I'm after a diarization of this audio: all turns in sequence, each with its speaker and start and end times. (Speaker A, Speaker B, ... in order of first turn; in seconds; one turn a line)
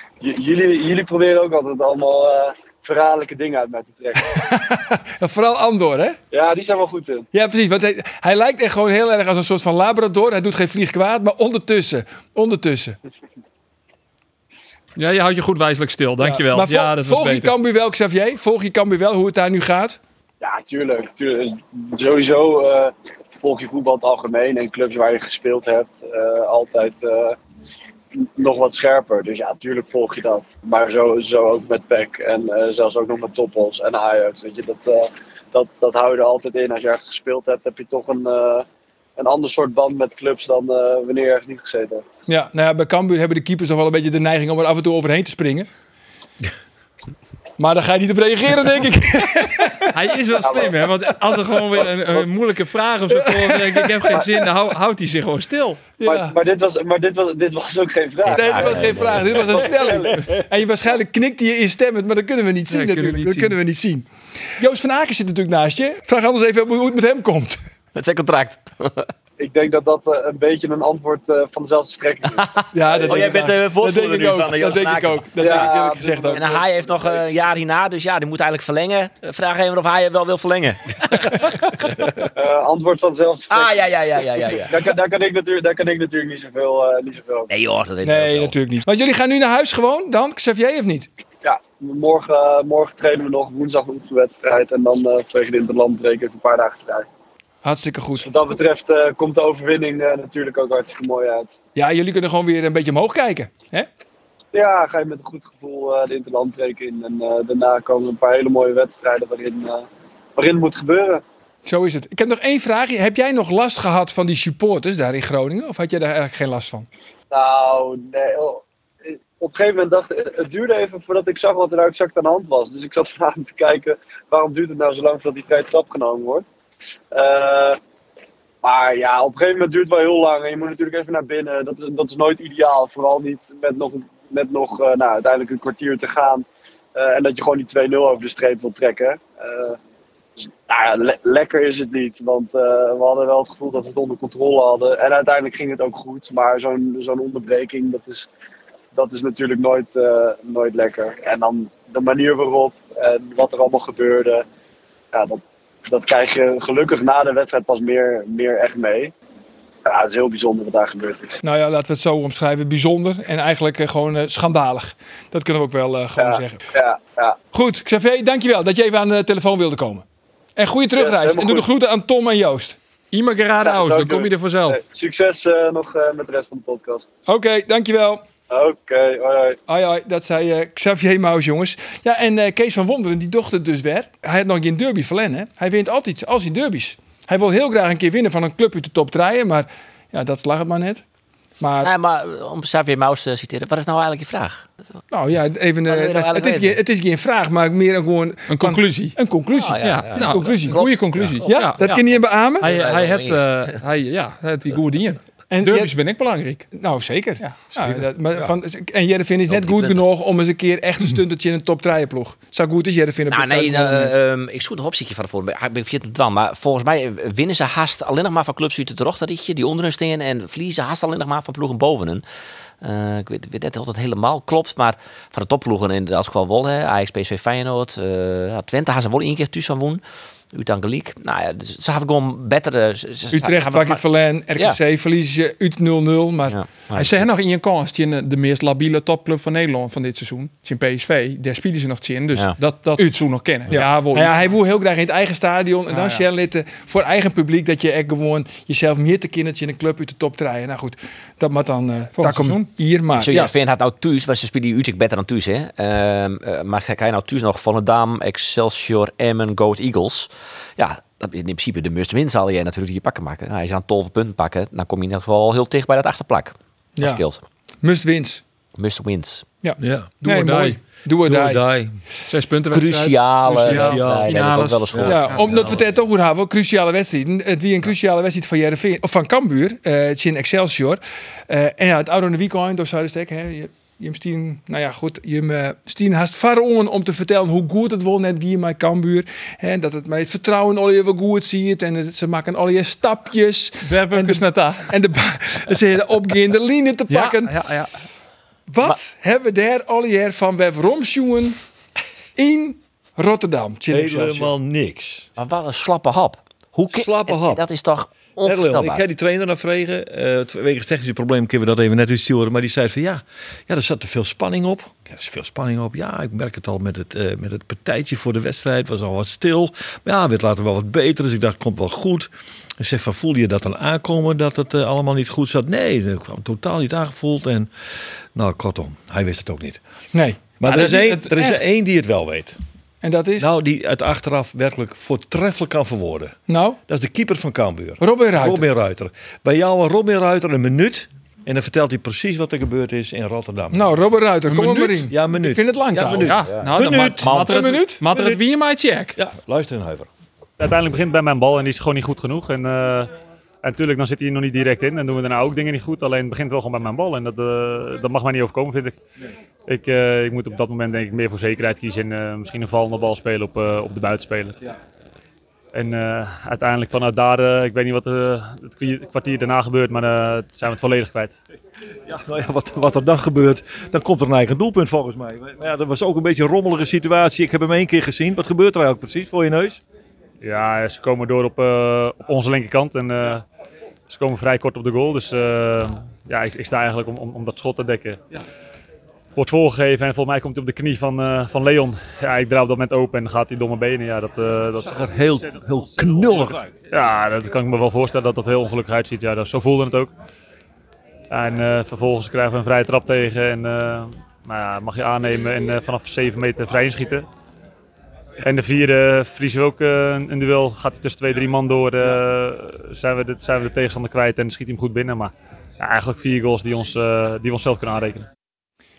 Speaker A: 0.2-4.4
Speaker B: 4.2-6.2
Speaker A: 6.3-7.3
Speaker B: 7.3-13.0
Speaker C: 14.9-17.5
Speaker B: 16.2-20.0
Speaker A: 20.4-27.4
Speaker A: 28.1-38.6
Speaker A: 39.2-42.0
Speaker B: 42.3-45.7
Speaker B: 47.6-50.0
Speaker C: 49.9-55.9
Speaker A: 50.4-50.8
Speaker B: 53.1-54.5
Speaker B: 56.0-56.4
Speaker A: 56.0-60.4
Speaker D: 58.2-59.8
Speaker B: 58.4-64.0
Speaker C: 62.7-63.6
Speaker B: 64.6-67.6
Speaker D: 67.9-69.1
Speaker A: 69.4-73.5
Speaker D: 72.3-75.7
Speaker B: 72.7-76.5
Speaker A: 75.4-77.2
Speaker D: 76.3-82.3
Speaker A: 82.3-83.8
Speaker D: 83.5-84.8
Speaker A: 84.4-87.5
Speaker D: 87.5-88.5
Speaker B: 88.0-91.1
Speaker A: 91.4-97.1
Speaker B: 97.6-98.2
Speaker A: 98.2-101.5
Speaker B: 101.8-103.9
Speaker A: 104.5-111.2
Speaker B: 111.6-116.9
Speaker A: 117.3-126.4
Speaker A: 127.1-127.8
Speaker A: 128.6-139.8
Speaker A: 140.4-148.3
Speaker A: 148.9-154.4
Speaker A: 155.1-159.1
Speaker A: 159.8-161.4
Speaker B: 161.4-166.6
Speaker A: 166.2-167.4
Speaker B: 167.5-170.0
Speaker B: 170.6-172.8
Speaker A: 171.0-171.7
Speaker C: 173.1-174.8
Speaker A: 173.6-177.1
Speaker B: 177.3-178.2
Speaker A: 178.5-179.6
Speaker B: 179.7-191.0
Speaker B: 191.6-191.9
Speaker D: 191.8-194.7
Speaker B: 195.1-200.8
Speaker D: 195.8-196.8
Speaker C: 198.5-199.2
Speaker D: 199.5-201.4
Speaker C: 199.8-202.0
Speaker E: 201.2-201.5
Speaker B: 201.4-202.7
Speaker C: 202.6-206.7
Speaker D: 202.6-203.8
Speaker B: 205.5-205.9
Speaker B: 206.7-214.2
Speaker E: 207.8-208.5
Speaker D: 209.5-210.1
Speaker D: 213.3-222.2
Speaker D: 222.8-230.0
Speaker D: 230.5-234.0
Speaker B: 233.3-236.6
Speaker D: 236.5-237.2
Speaker C: 236.9-244.4
Speaker B: 243.0-253.5
Speaker C: 245.9-246.2
Speaker C: 252.2-252.7
Speaker D: 253.2-267.4
Speaker B: 267.0-267.2
Speaker B: 267.8-268.4
Speaker D: 268.8-269.4
Speaker B: 269.6-271.6
Speaker E: 269.8-270.1
Speaker C: 270.2-270.8
Speaker E: 271.2-272.0
Speaker C: 272.3-275.5
Speaker D: 272.7-275.7
Speaker E: 273.6-275.8
Speaker B: 275.1-297.6
Speaker C: 293.8-294.9
Speaker C: 297.1-298.0
Speaker B: 298.7-301.6
Speaker B: 302.4-304.5
Speaker E: 303.9-305.3
Speaker D: 305.4-309.0
Speaker E: 306.8-307.6
Speaker E: 308.4-327.7
Speaker E: 328.3-329.8
Speaker B: 330.1-331.1
Speaker E: 330.6-332.6
Speaker C: 330.6-331.6
Speaker B: 333.0-333.5
Speaker E: 333.4-344.0
Speaker B: 336.5-336.8
Speaker B: 338.0-338.6
Speaker B: 343.7-346.4
Speaker C: 344.5-345.1
Speaker E: 345.1-347.5
Speaker C: 346.1-349.2
Speaker B: 347.2-348.0
Speaker E: 348.1-348.4
Speaker E: 349.1-350.1
Speaker F: 350.6-353.1
Speaker F: 353.6-359.0
Speaker F: 359.7-364.6
Speaker F: 365.7-371.3
Speaker E: 372.1-379.8
Speaker F: 380.4-383.4
Speaker F: 384.1-388.2
Speaker F: 389.4-395.3
Speaker E: 394.9-396.7
Speaker F: 396.9-400.1
Speaker F: 401.3-407.2
Speaker F: 408.4-418.3